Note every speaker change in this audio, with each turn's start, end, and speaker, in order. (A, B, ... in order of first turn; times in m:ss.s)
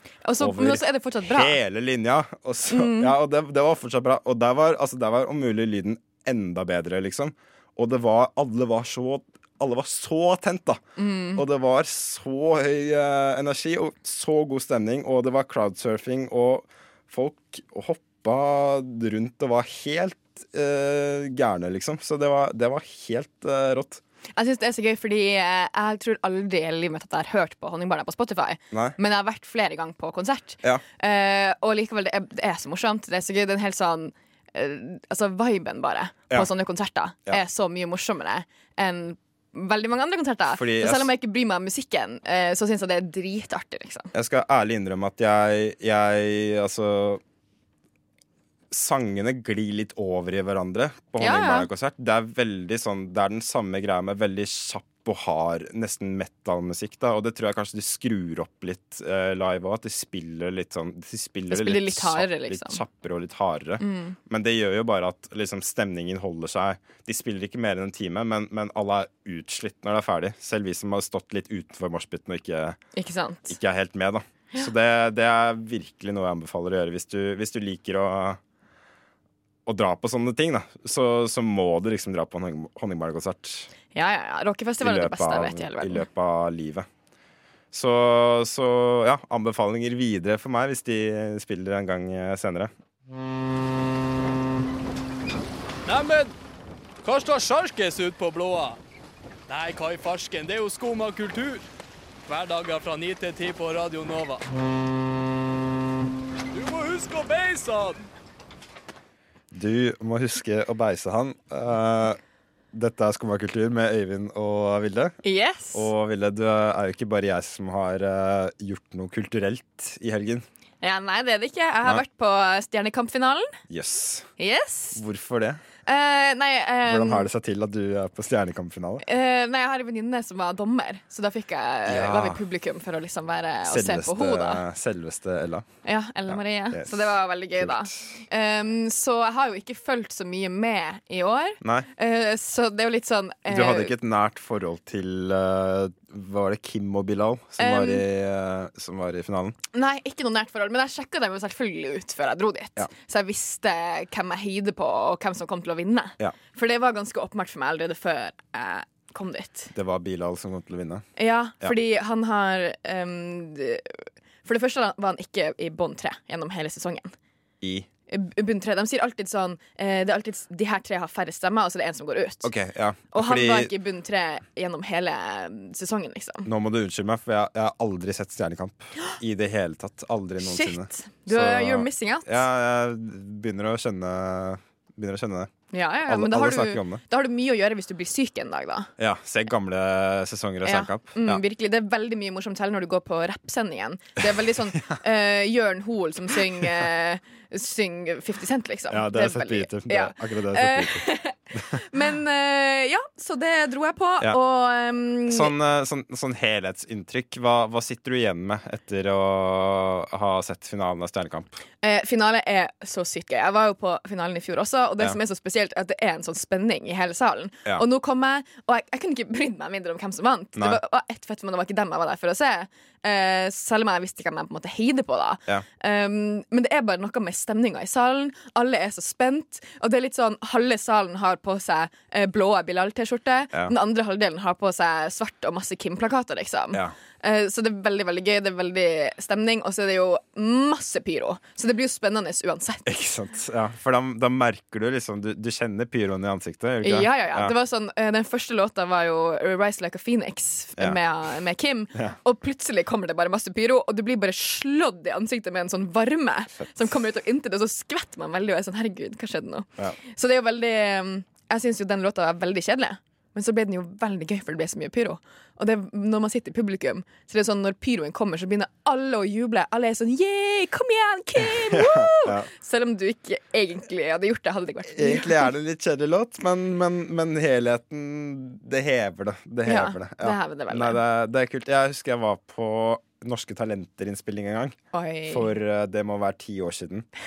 0:00.2-0:01.6 A
0:00.4-0:10.8 B
0:02.7-0:03.1 A
0:11.0-0:11.4 A
0:11.4-0:24.0 B
0:24.4-0:44.1 A
0:40.5-0:41.1 B
0:44.1-0:47.2 B
0:48.7-1:12.8 B
0:51.2-0:51.7 A
1:01.5-1:02.8 A
1:03.8-1:04.2 A
1:13.0-1:13.5 A
1:13.5-1:18.4 B
1:19.6-1:23.7 B
1:23.9-1:26.0 A
1:24.8-1:26.9 B
1:27.7-1:32.7 B
1:35.8-1:36.3 C
1:37.0-1:38.8 C
1:39.5-1:41.6 C
1:42.3-1:44.4 C
1:46.5-1:48.0 C
1:49.5-1:52.2 B
1:52.7-1:55.2 B
1:55.2-1:55.9 A
1:55.7-2:00.4 B
2:00.8-2:03.6 A
2:03.7-2:04.3 B
2:04.4-2:05.0 A
2:04.9-2:05.6 B
2:05.8-2:07.3 A
2:06.8-2:09.0 B
2:09.0-2:14.6 A
2:11.8-2:12.4 B
2:13.6-2:15.7 B
2:15.8-2:23.9 A
2:16.3-2:18.1 B
2:21.6-2:21.9 B
2:23.5-2:29.6 B
2:27.6-2:28.0 A
2:29.7-2:39.7 A
2:39.7-2:41.0 B
2:41.2-2:47.1 A
2:47.6-2:47.9 B
2:48.1-2:52.5 A
2:52.4-2:53.7 B
2:53.1-2:56.5 A
2:56.4-3:05.5 B
3:00.4-3:02.4 A
3:05.7-3:08.9 A
3:06.1-3:07.0 B
3:09.0-3:11.4 B
3:10.6-3:25.5 A
3:14.3-3:14.8 B
3:18.9-3:21.8 B
3:25.3-3:31.6 B
3:31.8-4:02.9 A
4:02.8-4:07.5 B
4:06.8-4:35.5 A
4:31.7-4:32.5 B
4:34.9-4:44.8 B
4:39.6-4:41.0 A
4:44.9-4:45.5 A
4:45.3-4:47.1 B